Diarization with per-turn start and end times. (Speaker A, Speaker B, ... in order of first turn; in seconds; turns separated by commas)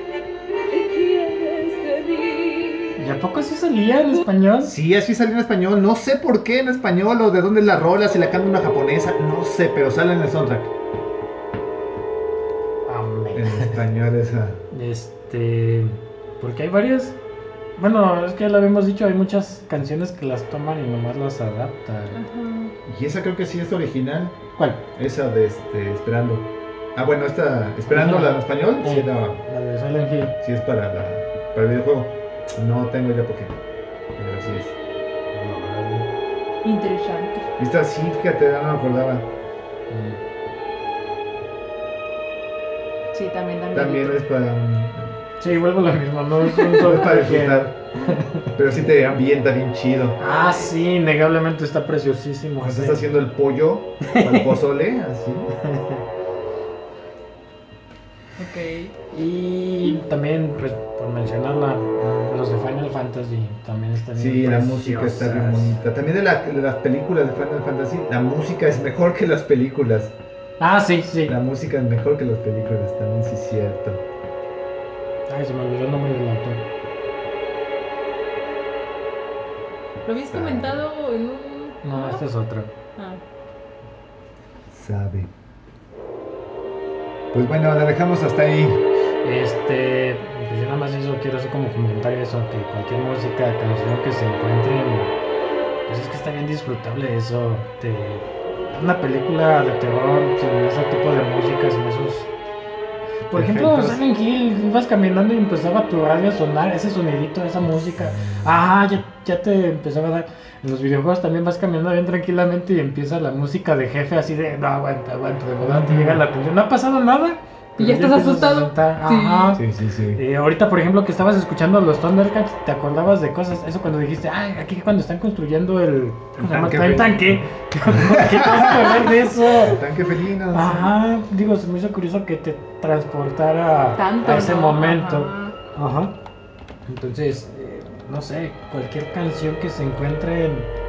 Speaker A: 3.0-4.7, Speaker B: 4.6-10.7, Speaker A: 12.9-13.8, Speaker B: 13.3-14.6, Speaker A: 14.7-17.2, Speaker A: 17.8-22.2, Speaker C: 22.1-22.7, Speaker B: 22.8-24.4, Speaker A: 24.6-24.8, Speaker B: 24.9-29.4, Speaker A: 27.9-30.4, Speaker B: 30.4-33.6, Speaker B: 34.1-34.7, Speaker A: 35.3-36.1, Speaker C: 36.6-37.5, Speaker B: 37.6-39.3, Speaker A: 39.9-40.2, Speaker C: 43.1-44.2, Speaker B: 43.7-45.2, Speaker A: 45.4-48.5, Speaker B: 46.8-47.8, Speaker B: 48.5-50.2, Speaker A: 50.2-53.1, Speaker C: 50.3-50.6, Speaker B: 52.6-55.5, Speaker A: 54.0-54.5, Speaker A: 55.6-56.0, Speaker C: 58.4-58.9, Speaker A: 59.1-65.8, Speaker B: 64.2-70.1, Speaker A: 70.6-71.3, Speaker B: 71.3-74.0, Speaker A: 75.3-76.7, Speaker C: 80.0-82.2, Speaker B: 80.2-80.8, Speaker A: 81.8-82.7, Speaker C: 83.0-83.2, Speaker B: 84.7-85.3, Speaker B: 87.3-88.9, Speaker A: 89.2-95.1, Speaker A: 95.8-102.3, Speaker B: 103.3-104.0, Speaker A: 103.3-119.6, Speaker B: 108.2-108.6, Speaker B: 115.6-116.2, Speaker C: 117.8-119.6, Speaker B: 119.6-120.2, Speaker A: 120.1-129.8, Speaker B: 126.4-130.9, Speaker A: 130.5-136.1, Speaker C: 134.0-135.6, Speaker A: 136.8-140.7